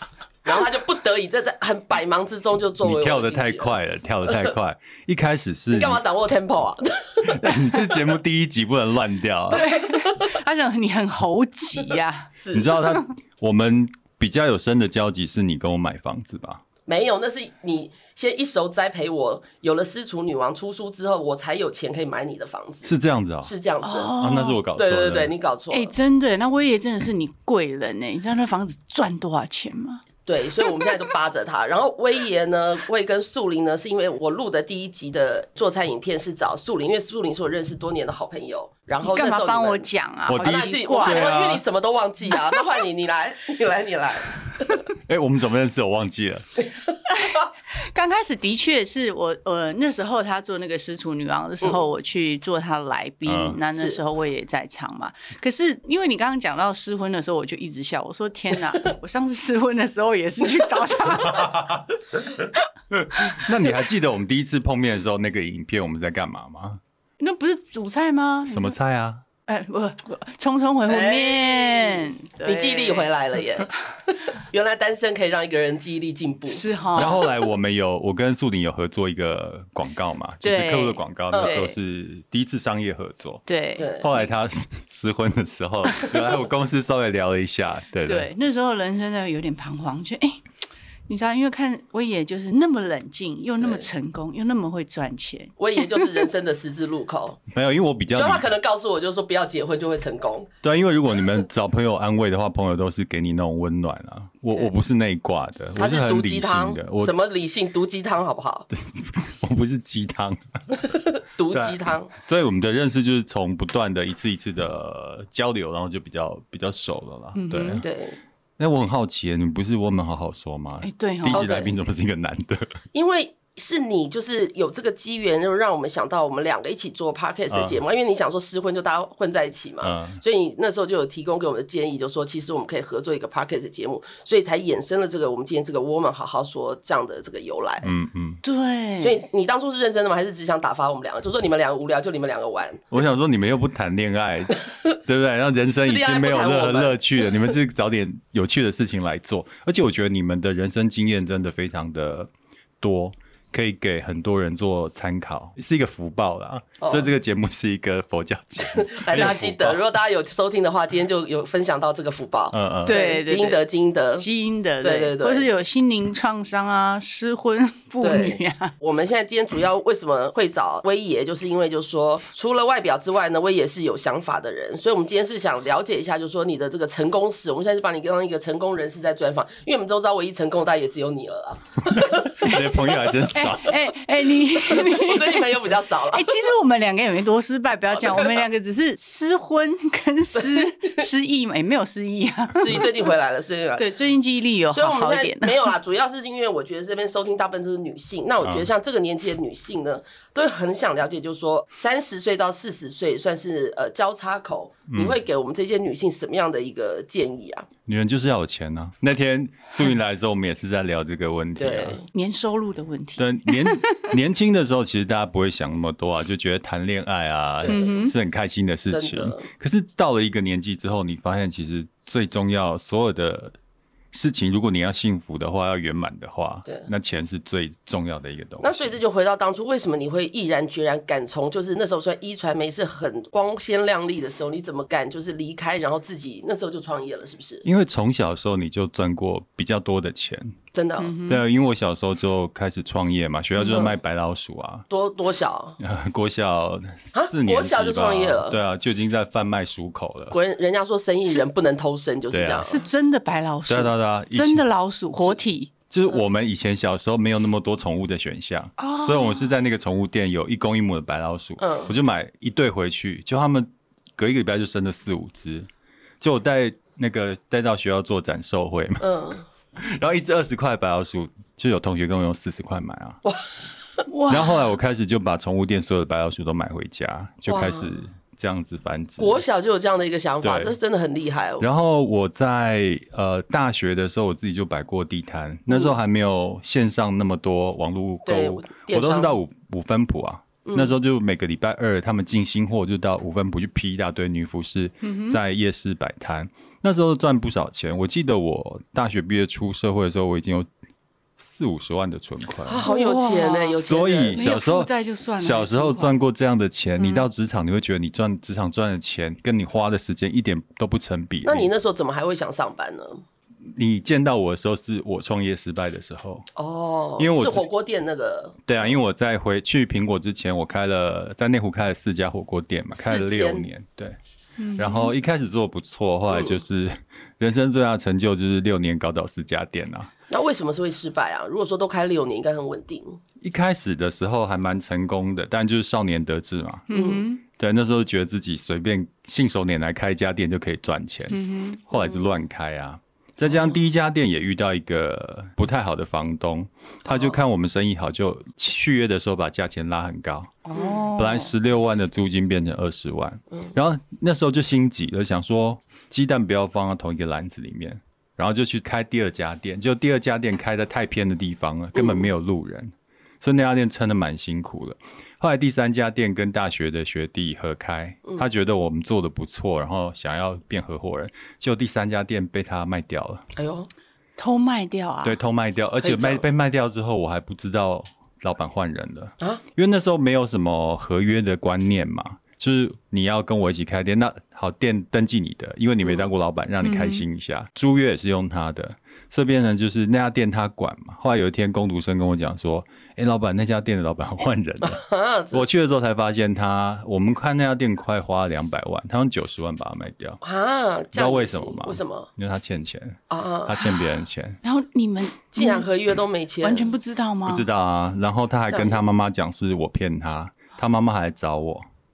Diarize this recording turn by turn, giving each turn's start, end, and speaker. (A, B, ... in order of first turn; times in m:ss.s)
0:00.4-0:04.5 A
0:02.8-0:06.0 B
0:05.7-0:07.9 A
0:07.2-0:09.7 B
0:09.5-0:12.3 C
0:09.6-0:10.3 A
0:12.4-0:12.8 A
0:12.5-0:16.6 B
0:16.9-0:24.2 A
0:22.8-0:23.5 B
0:23.8-0:24.6 C
0:24.2-0:25.4 B
0:24.8-0:25.9 A
0:25.7-0:30.0 C
0:30.3-0:39.9 A
0:39.0-0:41.3 C
0:40.3-0:41.6 B
0:40.4-0:44.8 A
0:45.0-0:46.5 B
0:47.1-1:01.8 C
0:53.2-0:53.6 B
1:01.4-1:01.8 B
1:02.9-1:06.8 B
1:07.2-1:08.8 C
1:08.5-1:09.2 B
1:09.5-1:13.1 C
1:10.9-1:17.4 A
1:16.5-1:17.2 C
1:17.0-1:23.5 B
1:20.4-1:21.8 C
1:21.3-1:21.6 A
1:23.5-1:24.2 C
1:23.8-1:24.1 A
1:24.0-1:28.3 B
1:28.0-1:30.4 C
1:31.1-1:36.1 C
1:33.6-1:33.9 A
1:35.6-1:37.5 A
1:37.5-1:38.5 B
1:38.1-1:40.5 A
1:40.6-1:47.1 B
1:45.8-1:48.7 A
1:48.8-1:50.8 B
1:50.8-1:52.1 A
1:51.5-1:57.9 B
1:57.4-1:57.8 C
1:57.8-1:58.2 A
1:58.6-2:02.8 B
2:00.8-2:01.4 C
2:01.3-2:01.8 A
2:02.9-2:17.9 A
2:07.5-2:07.8 B
2:09.8-2:10.2 B
2:17.8-2:18.4 B
2:18.4-2:19.2 C
2:19.0-2:22.9 A
2:22.9-2:32.3 B
2:25.8-2:27.5 A
2:32.8-2:39.8 B
2:36.8-2:37.1 A
2:38.6-2:44.3 A
2:42.5-2:43.0 B
2:42.8-2:43.6 C
2:44.2-2:48.7 C
2:44.8-2:45.5 A
2:48.0-3:02.5 A
3:02.0-3:03.8 B
3:02.4-3:02.7 C
3:03.3-3:13.1 C
3:04.5-3:06.5 A
3:08.0-3:08.4 A
3:10.4-3:11.1 A
3:12.6-3:13.9 A
3:13.8-3:15.7 C
3:14.7-3:27.7 A
3:18.4-3:18.7 B
3:24.9-3:25.2 B
3:27.9-3:32.0 B
3:31.6-3:32.1 A
3:32.1-3:34.1 C
3:33.2-3:43.6 B
3:37.6-3:38.0 A
3:37.7-3:38.1 C
3:38.9-3:39.5 A
3:44.1-3:49.0 B
3:48.6-3:57.6 A
3:57.6-4:00.6 B
4:00.7-4:01.2 A
4:01.0-4:01.4 C
4:01.3-4:04.9 B
4:03.6-4:04.0 A
4:04.9-4:05.8 A
4:05.8-4:10.4 B
4:07.1-4:08.6 A
4:10.3-4:12.9 A
4:12.3-4:12.7 B
4:12.6-4:15.7 C
4:13.7-4:14.6 B
4:15.9-4:25.7 B
4:18.8-4:19.5 C
4:21.6-4:21.9 A
4:26.2-4:29.1 B
4:29.0-4:29.4 A
4:29.8-4:33.2 B
4:34.1-4:34.7 C
4:34.3-4:39.4 B
4:37.5-4:37.9 A
4:39.2-4:41.7 A
4:40.4-4:40.8 B
4:41.6-5:00.7 B
4:48.2-4:49.4 A
4:50.6-4:51.0 A
4:55.0-4:55.4 C
5:01.4-5:02.9 B
5:02.6-5:04.6 A
5:02.8-5:06.2 C
5:03.8-5:11.7 B
5:07.0-5:07.3 C
5:11.4-5:13.2 A
5:13.6-5:16.5 B
5:16.6-5:18.8 A
5:17.2-5:17.7 B
5:18.7-5:24.2 B
5:22.9-5:23.7 A
5:24.6-5:25.1 C
5:24.8-5:30.1 B
5:30.3-5:33.2 A
5:33.4-5:36.9 B
5:36.9-5:37.4 C
5:36.9-5:37.2 A
5:37.5-5:50.6 B
5:41.3-5:41.9 C
5:47.1-5:47.4 A
5:50.6-5:51.5 C
5:51.1-6:13.4 B
6:02.0-6:02.2 A
6:13.6-6:13.9 A
6:14.4-6:15.4 C
6:15.2-6:40.4 B
6:16.0-6:16.4 A
6:26.8-6:27.2 C
6:34.8-6:35.7 A
6:40.4-6:42.3 A
6:41.1-6:44.6 B
6:43.3-6:43.9 A
6:44.6-6:45.9 C
6:45.5-6:46.9 A
6:46.6-6:47.7 C
6:47.5-6:51.9 B
6:48.7-6:49.0 A